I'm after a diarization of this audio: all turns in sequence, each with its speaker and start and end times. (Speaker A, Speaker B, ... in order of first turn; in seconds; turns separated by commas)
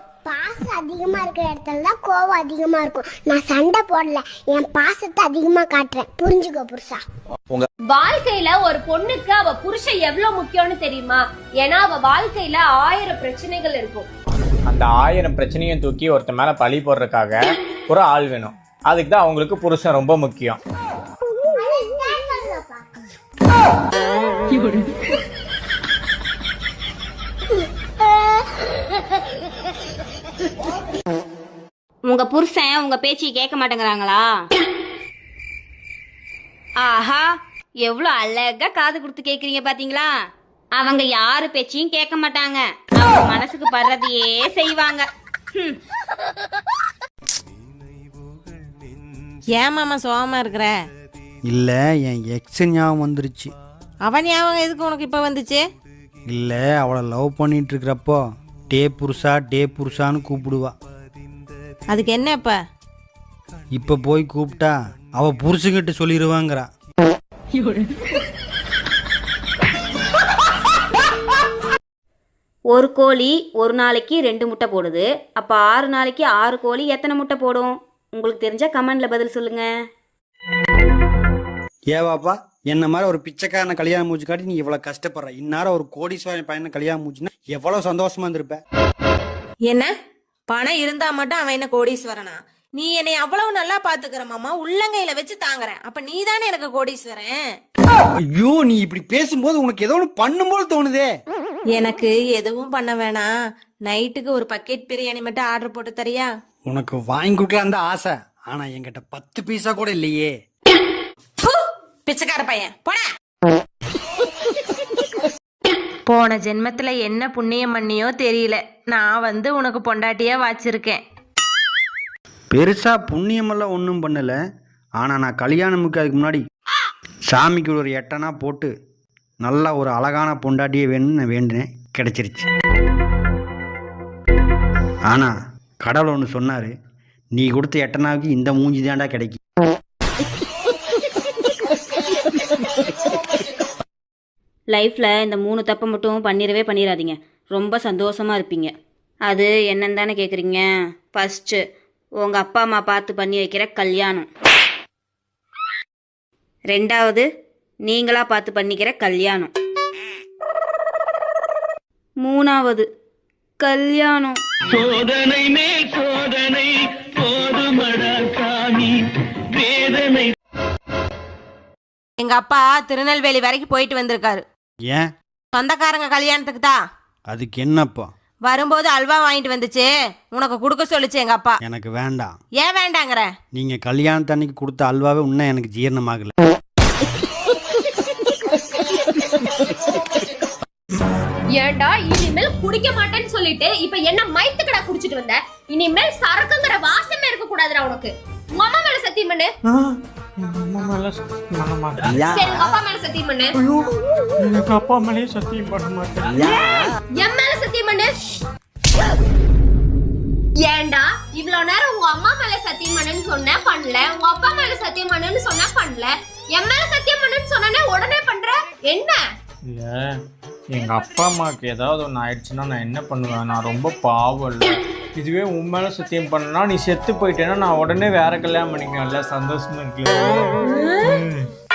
Speaker A: 0.2-7.0, Speaker B: 7.9-14.1, Speaker C: 14.7-20.6, Speaker A: 21.6-22.9, Speaker D: 24.6-24.8, Speaker E: 32.1-34.3, Speaker E: 36.8-37.2, Speaker E: 37.8-40.1, Speaker E: 40.8-45.0, Speaker D: 49.5-50.8, Speaker F: 51.5-53.5, Speaker D: 54.0-55.6, Speaker F: 56.3-60.7, Speaker D: 61.9-62.6, Speaker F: 63.7-66.7, Speaker D: 67.6-67.8, Speaker E: 72.7-79.7, Speaker F: 81.9-88.6, Speaker D: 90.5-97.4, Speaker F: 98.2-101.1, Speaker D: 101.7-103.3, Speaker D: 103.8-106.3, Speaker F: 106.7-110.3, Speaker D: 111.4-113.0, Speaker D: 116.1-121.0, Speaker F: 122.5-124.4, Speaker F: 125.0-126.4, Speaker F: 127.3-128.7, Speaker F: 129.4-132.4, Speaker F: 135.8-136.7, Speaker F: 137.3-139.4, Speaker E: 144.7-148.7, Speaker E: 149.3-150.6, Speaker E: 151.2-151.6, Speaker E: 152.2-154.3, Speaker E: 156.7-157.2, Speaker E: 157.9-159.5, Speaker E: 162.2-162.8, Speaker E: 163.6-164.4, Speaker G: 164.8-168.9, Speaker G: 169.6-170.3, Speaker D: 172.2-174.4, Speaker D: 175.5-176.8, Speaker F: 177.3-178.1, Speaker D: 178.4-181.6, Speaker F: 181.6-182.3, Speaker D: 182.6-183.3, Speaker F: 183.5-186.3, Speaker B: 191.6-199.5, Speaker C: 199.7-202.2, Speaker B: 202.3-203.5, Speaker C: 203.6-206.6, Speaker B: 207.2-208.2, Speaker B: 210.6-219.2, Speaker C: 219.7-220.2, Speaker C: 220.7-231.5, Speaker B: 230.7-231.2